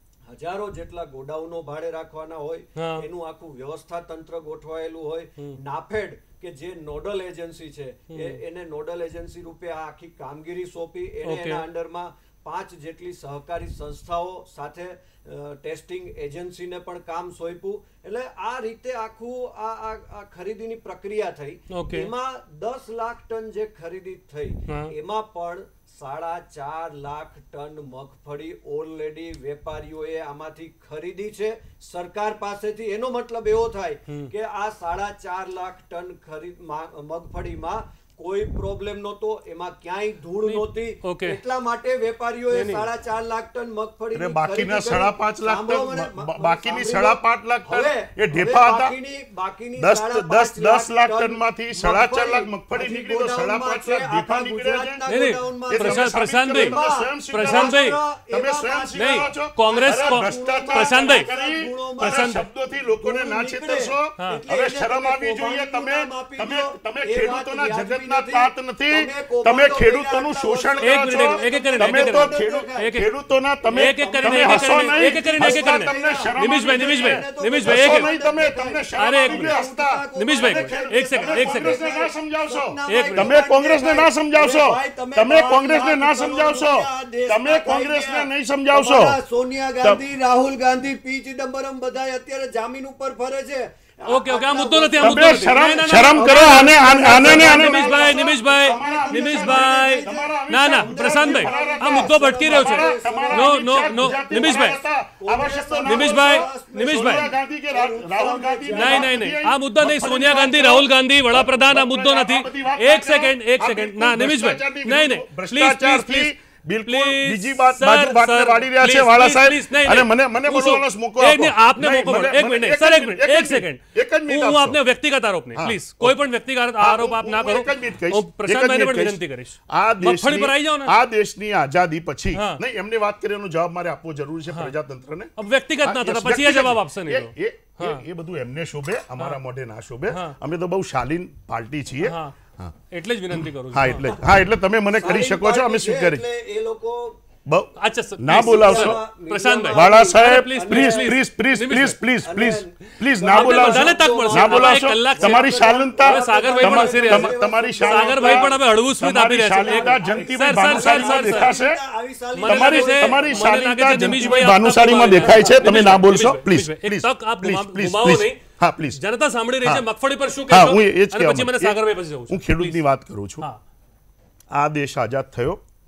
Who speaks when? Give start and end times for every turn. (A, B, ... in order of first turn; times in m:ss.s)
0:00.3-1:02.4 A
0:02.8-0:03.1 B
0:08.1-0:08.4 B
0:11.2-0:11.6 B
0:21.7-0:22.1 B
0:24.7-0:24.9 B
0:40.4-0:41.4 B
0:42.5-0:42.9 B
0:44.1-0:48.9 C
0:49.8-0:55.0 C
0:55.1-0:56.8 B
0:55.7-1:29.2 C
0:57.3-0:58.0 B
0:59.0-1:01.3 B
1:02.0-1:02.4 B
1:03.0-1:13.0 A
1:10.8-1:13.1 B
1:13.7-1:49.2 A
1:13.7-1:18.1 B
1:19.0-1:19.6 B
1:20.2-1:21.8 B
1:22.9-1:23.3 B
1:34.1-1:44.8 B
1:35.0-2:04.8 C
1:45.8-1:47.3 B
1:48.7-1:56.3 B
1:56.9-2:11.0 B
2:05.6-2:06.2 C
2:06.8-2:15.3 C
2:12.3-2:12.6 B
2:14.5-2:14.8 B
2:15.4-2:18.0 B
2:15.8-2:22.7 C
2:20.1-2:20.4 B
2:22.0-2:22.4 B
2:22.9-2:24.1 B
2:23.3-2:26.3 C
2:25.0-2:27.2 A
2:27.5-2:29.0 C
2:27.8-2:32.0 B
2:28.5-2:31.1 A
2:29.7-2:41.8 C
2:32.2-2:38.6 A
2:33.3-2:41.5 B
2:39.6-2:44.5 A
2:42.4-2:48.4 B
2:42.4-2:49.0 C
2:45.1-2:45.8 A
2:49.0-2:52.8 B
2:50.5-2:53.5 C
2:54.5-2:55.6 C